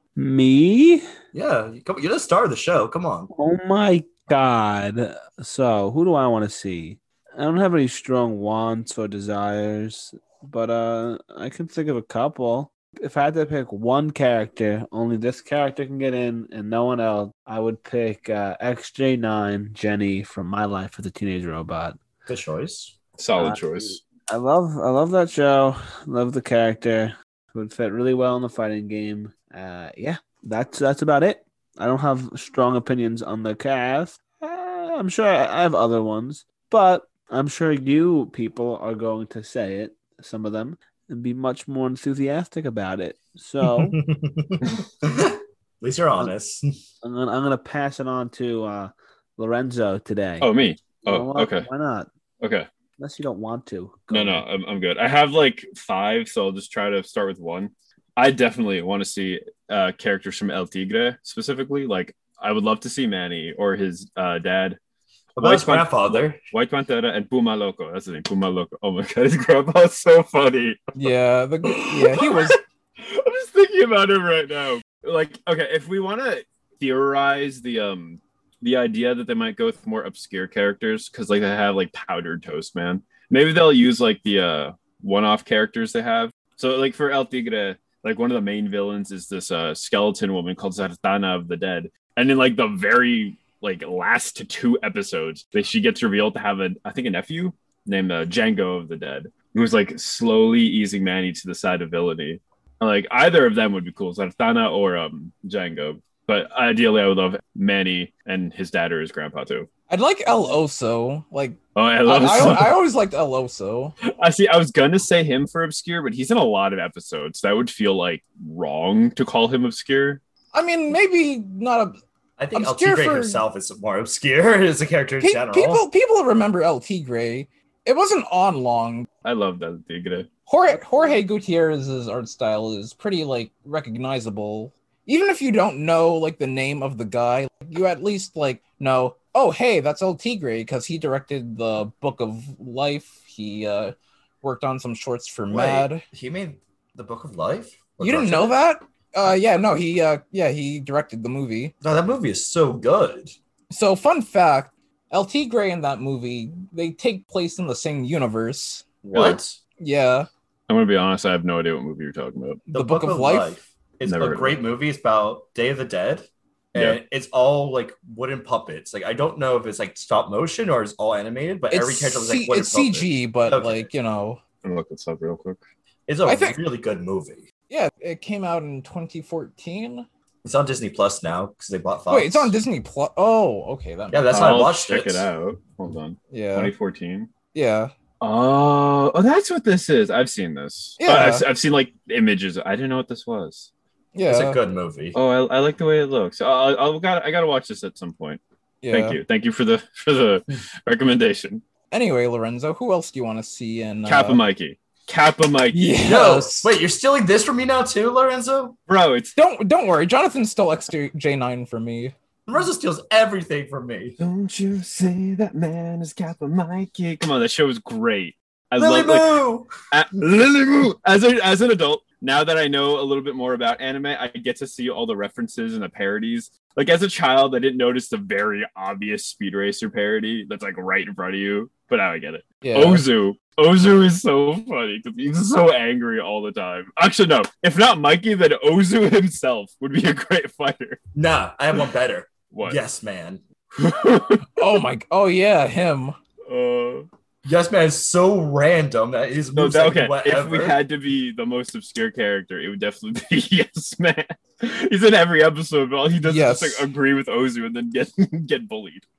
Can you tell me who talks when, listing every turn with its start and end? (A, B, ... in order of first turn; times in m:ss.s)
0:00.2-0:01.0 A
0:01.3-0:03.3 B
0:03.3-0:22.0 A
0:22.3-0:22.9 B
0:23.2-0:24.0 C
0:23.4-0:44.0 A
0:43.6-0:46.7 B
0:47.0-0:50.5 A
0:50.4-0:51.7 C
0:51.0-0:52.1 A
0:52.4-0:52.7 C
0:53.0-0:54.4 A
0:54.1-1:04.8 C
1:05.4-1:11.1 C
1:05.4-1:06.4 B
1:11.0-1:12.6 D
1:11.6-1:49.7 C
1:49.9-1:54.0 D
1:51.8-1:52.8 C
1:54.2-2:00.2 C
2:00.5-2:02.0 D
2:02.4-2:05.9 B
2:02.5-2:03.4 D
2:05.2-2:09.1 D
2:09.2-2:10.3 C
2:10.5-2:26.0 D
2:25.5-2:28.6 B
2:28.0-2:31.7 D
2:31.8-2:33.3 B
2:33.7-2:38.9 D
2:39.0-2:39.6 B
2:39.1-2:39.4 C
2:39.8-2:40.3 D
2:40.7-2:42.6 C
2:42.7-2:53.9 B
2:42.7-2:43.6 D
2:44.1-2:44.6 C
2:51.7-2:54.4 D
2:54.6-2:55.6 C
2:56.1-2:57.4 B
2:56.2-2:56.6 D
2:57.7-3:00.1 D
3:00.4-3:02.5 B
3:02.1-3:04.3 D
3:04.1-3:05.3 B
3:04.3-3:07.3 C
3:06.3-3:06.7 D
3:07.5-3:07.9 D
3:08.2-3:13.7 C
3:11.0-3:11.5 D
3:14.2-3:14.6 D
3:14.3-3:15.2 B
3:15.1-3:18.4 C
3:18.8-3:19.2 D
3:18.9-3:21.6 C
3:21.9-3:24.4 D
3:24.1-3:26.0 C
3:25.7-3:26.7 D
3:26.0-3:28.8 B
3:28.9-3:29.4 C
3:29.4-3:32.1 D
3:32.5-3:34.2 B
3:34.2-4:01.0 C
3:38.8-3:39.7 B
3:52.6-3:53.0 D
4:01.2-4:03.4 B
4:02.5-4:02.8 C
4:03.8-4:04.7 C
4:04.6-4:06.2 D
4:06.5-4:07.1 C
4:07.4-4:10.8 B
4:09.6-4:19.1 C
4:16.2-4:16.9 D